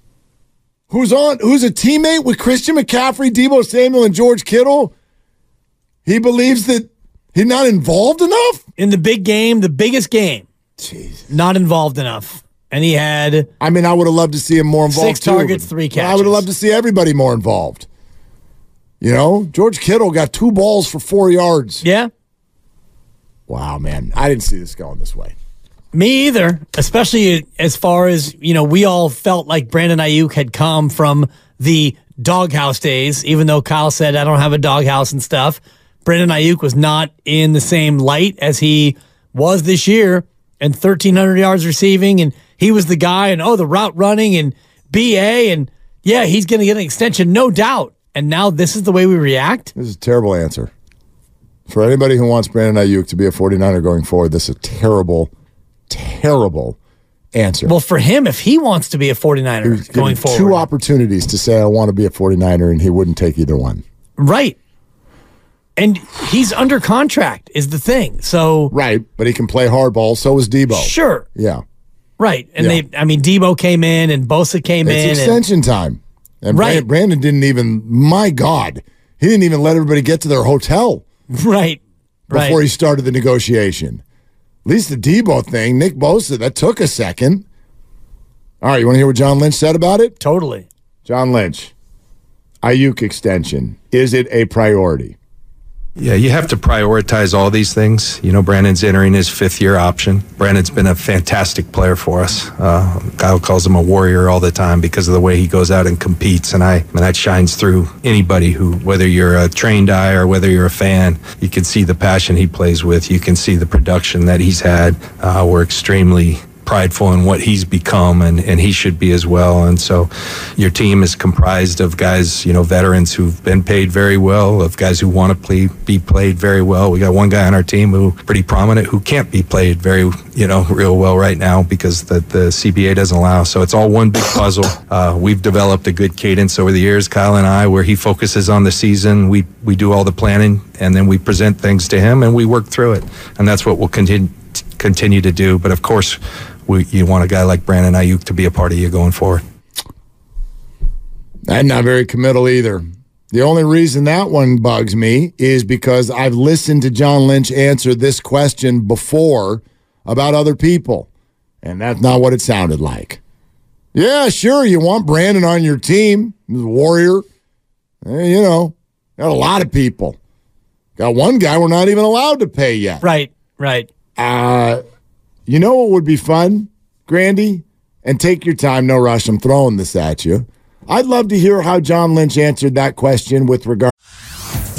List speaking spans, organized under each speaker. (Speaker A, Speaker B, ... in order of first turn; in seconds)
Speaker A: 0.9-4.9, 6.0-8.6, 10.8-11.3, 13.6-17.9, 19.0-21.8, 23.5-25.4, 49.8-50.7, 51.7-55.3, 55.9-56.8, 57.3-57.7, 59.6-63.8, 68.7-71.6, 74.8-81.0, 82.3-84.0, 84.7-87.5, 88.6-90.2, 91.1-91.7, 92.6-95.2, 151.5-161.1, 161.6-163.2, 163.9-167.2, 168.0-170.2, 171.0-173.1, 174.2-174.8, 175.5-183.9
Speaker B: 8.8-10.5, 11.3-13.5, 14.9-16.5, 21.8-22.1, 25.9-49.7, 57.7-60.6, 64.2-64.6, 65.8-68.7, 70.7-71.3, 72.2-75.4, 76.5-76.8, 81.3-82.6, 90.2-90.7, 173.0-173.9
Speaker C: 96.0-149.4